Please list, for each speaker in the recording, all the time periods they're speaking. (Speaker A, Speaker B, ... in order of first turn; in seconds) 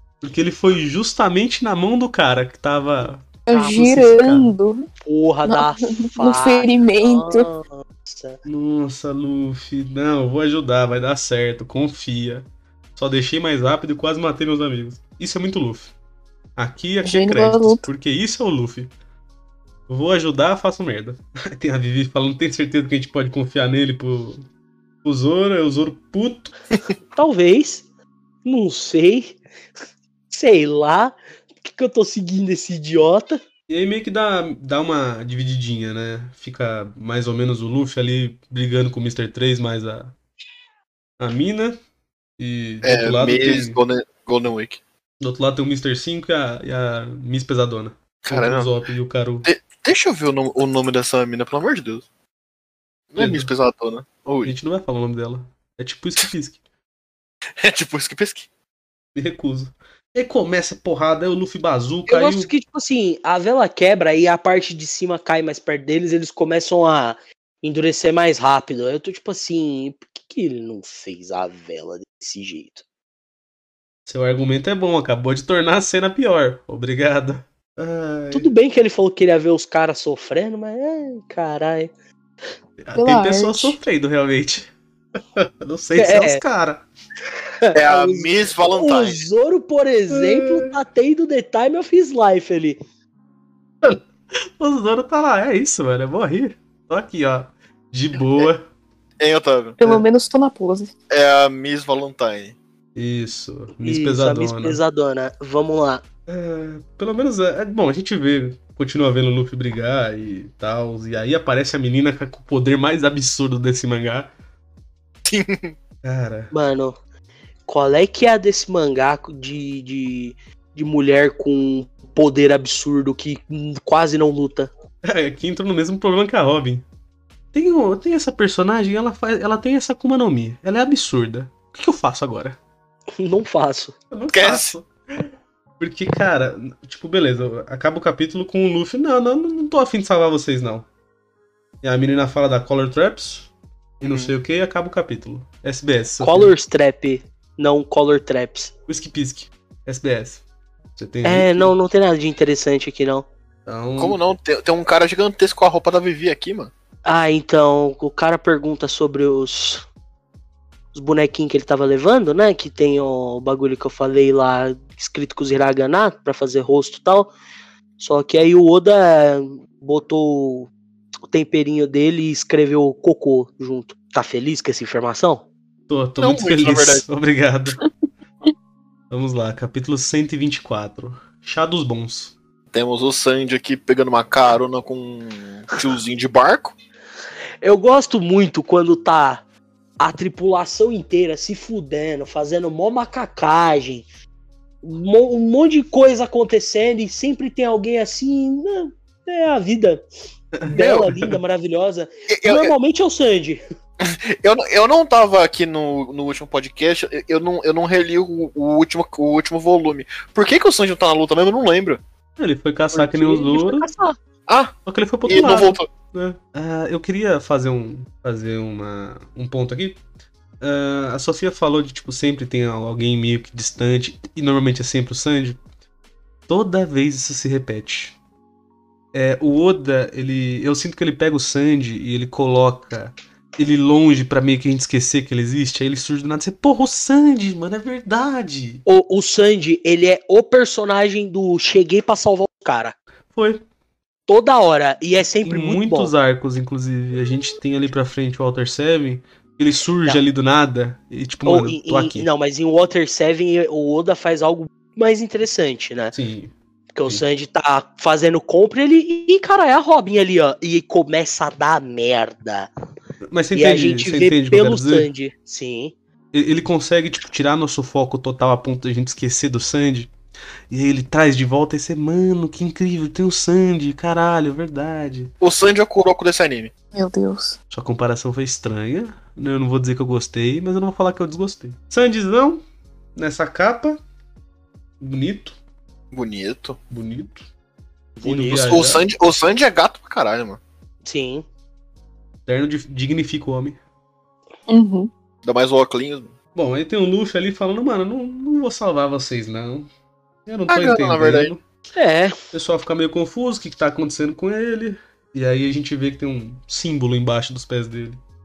Speaker A: 0.2-4.5, 8.4-15.9, 16.6-18.9, 19.9-24.4, 25.0-26.5, 33.7-40.1, 41.2-41.8, 42.4-43.8, 45.2-49.5, 53.2-53.5, 54.4-56.6, 59.1-62.5, 74.0-78.5, 82.8-84.7, 85.3-86.8, 90.1-90.7, 93.8-98.7, 102.9-104.8, 106.3-114.3, 116.0-116.5, 125.0-126.8, 127.5-132.6, 134.1-140.9, 141.8-146.5, 148.9-150.4, 151.0-151.7, 153.7-154.2, 175.9-177.8, 179.1-182.3, 200.5-201.4, 212.4-213.9, 214.8-220.0, 220.6-225.6, 226.5-228.2, 229.1-238.8, 243.3-243.6, 245.4-252.3, 256.1-256.5, 263.2-265.1, 266.3-270.1, 270.7-275.3, 277.7-282.6, 283.1-284.0, 285.0-285.6, 286.9-287.4, 288.2-289.1, 292.4-293.8, 296.5-299.9, 300.4-301.6, 302.5-308.2
Speaker B: 3.5-4.9, 5.5-7.5, 17.0-17.9, 83.0-83.8, 99.8-100.9, 276.9-277.6, 294.7-295.1
Speaker C: 5.0-8.4, 27.1-27.8, 28.4-29.4, 30.3-33.4, 62.1-72.8, 78.3-81.9, 86.0-86.4, 87.6-92.8, 103.8-106.0, 116.5-117.0, 117.7-124.7, 133.2-133.9, 146.2-148.7, 151.2-153.3, 157.1-159.8, 160.9-167.3, 168.0-170.7, 171.3-175.4, 187.6-189.4, 190.0-194.0, 194.8-200.0, 200.7-203.6, 212.9-214.2, 238.8-242.9, 244.3-246.1, 251.4-256.1, 256.9-262.7, 263.5-265.9, 288.3-288.6, 291.0-291.4, 301.9-302.4
Speaker D: 42.8-44.8, 48.2-48.7, 49.4-52.0, 53.1-54.5, 57.6-58.5, 87.7-89.2, 99.2-99.8, 101.1-102.5, 115.2-115.7, 134.3-134.7, 144.0-144.3, 154.0-156.7, 176.2-177.0, 182.7-186.7, 202.3-202.7, 204.0-212.0, 214.5-214.7, 215.2-215.9, 275.4-276.7, 286.1-286.8, 288.2-290.6, 295.4-296.3, 300.7-301.5